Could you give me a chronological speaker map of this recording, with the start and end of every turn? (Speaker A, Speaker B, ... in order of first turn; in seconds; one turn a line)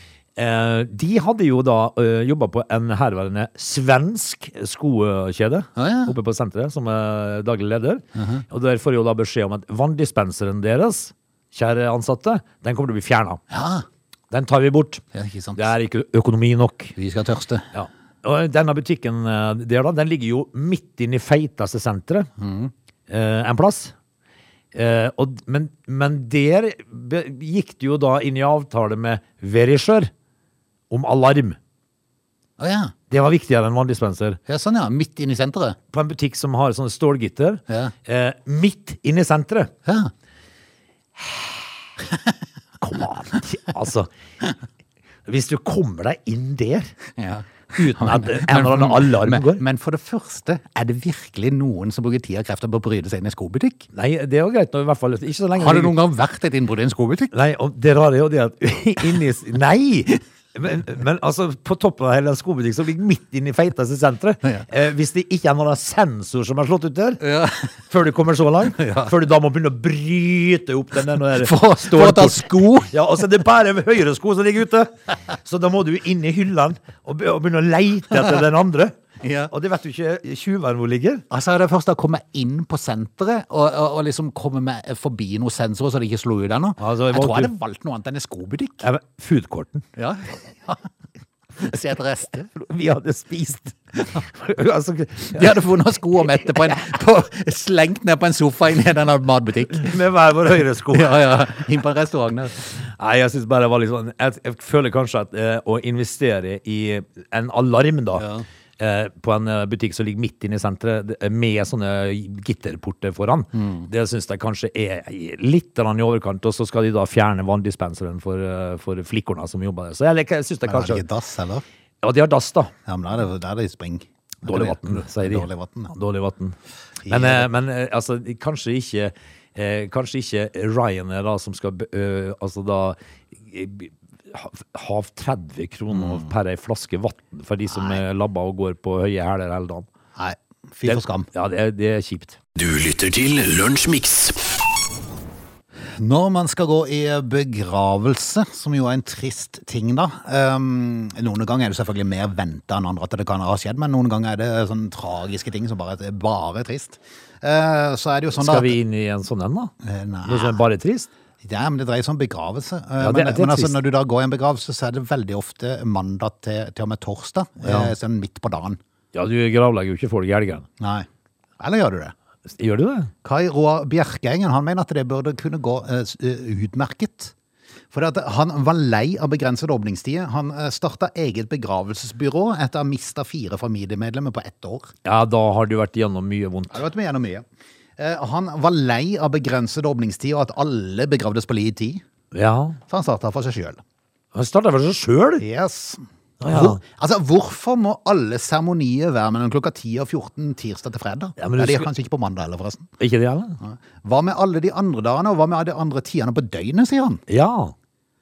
Speaker A: 0.4-13.4
Speaker B: 5.8-6.1
Speaker B: 8.2-8.4
Speaker B: 13.5-13.8
Speaker A: 14.3-15.0
Speaker B: 15.1-15.6
Speaker A: 15.6-16.9
Speaker B: 16.9-17.7
Speaker A: 17.7-22.3
Speaker B: 22.4-22.7
Speaker A: 23.1-23.9
Speaker A: 24.7-30.1
Speaker A: 30.9-31.6
Speaker B: 32.6-32.9
Speaker A: 33.1-34.4
Speaker B: 34.5-35.8
Speaker A: 35.9-39.7
Speaker B: 39.9-40.1
Speaker A: 42.8-44.1
Speaker A: 45.2-46.9
Speaker B: 47.2-53.9
Speaker A: 47.7-49.6
Speaker A: 53.9-55.9
Speaker B: 55.5-57.3
Speaker A: 57.3-67.2
Speaker B: 67.2-67.7
Speaker A: 67.9-78.9
Speaker B: 68.8-69.1
Speaker B: 71.3-72.9
Speaker B: 79.2-79.5
Speaker A: 79.5-81.2
Speaker B: 81.3-88.8
Speaker A: 86.8-87.5
Speaker A: 88.8-89.9
Speaker B: 90.0-90.9
Speaker B: 91.6-92.5
Speaker A: 92.5-95.6
Speaker B: 95.3-100.0
Speaker A: 99.7-101.4
Speaker B: 100.9-102.6
Speaker A: 102.6-108.3
Speaker B: 108.2-108.4
Speaker A: 108.8-121.0
Speaker B: 113.6-113.9
Speaker B: 120.7-121.6
Speaker A: 122.0-122.7
Speaker B: 122.8-125.9
Speaker A: 124.4-126.5
Speaker B: 127.0-127.5
Speaker A: 127.1-139.9
Speaker B: 135.9-136.3
Speaker B: 137.7-138.0
Speaker B: 140.2-141.3
Speaker A: 140.8-142.4
Speaker C: 142.6-144.6
Speaker B: 146.0-158.8
Speaker A: 158.4-159.7
Speaker B: 159.8-160.6
Speaker A: 160.2-161.1
Speaker B: 161.4-168.8
Speaker A: 163.0-163.8
Speaker A: 167.6-167.9
Speaker A: 169.1-170.7
Speaker B: 170.8-171.1
Speaker B: 171.6-172.1
Speaker A: 172.5-173.1
Speaker B: 173.2-177.3
Speaker B: 177.9-184.9
Speaker A: 185.0-186.8
Speaker B: 186.7-187.4
Speaker B: 188.0-192.0
Speaker A: 192.3-192.8
Speaker B: 192.9-193.8
Speaker A: 194.3-195.4
Speaker B: 195.4-202.9
Speaker A: 196.4-196.8
Speaker A: 201.4-201.9
Speaker A: 203.0-203.6
Speaker B: 203.6-207.2
Speaker A: 207.3-207.7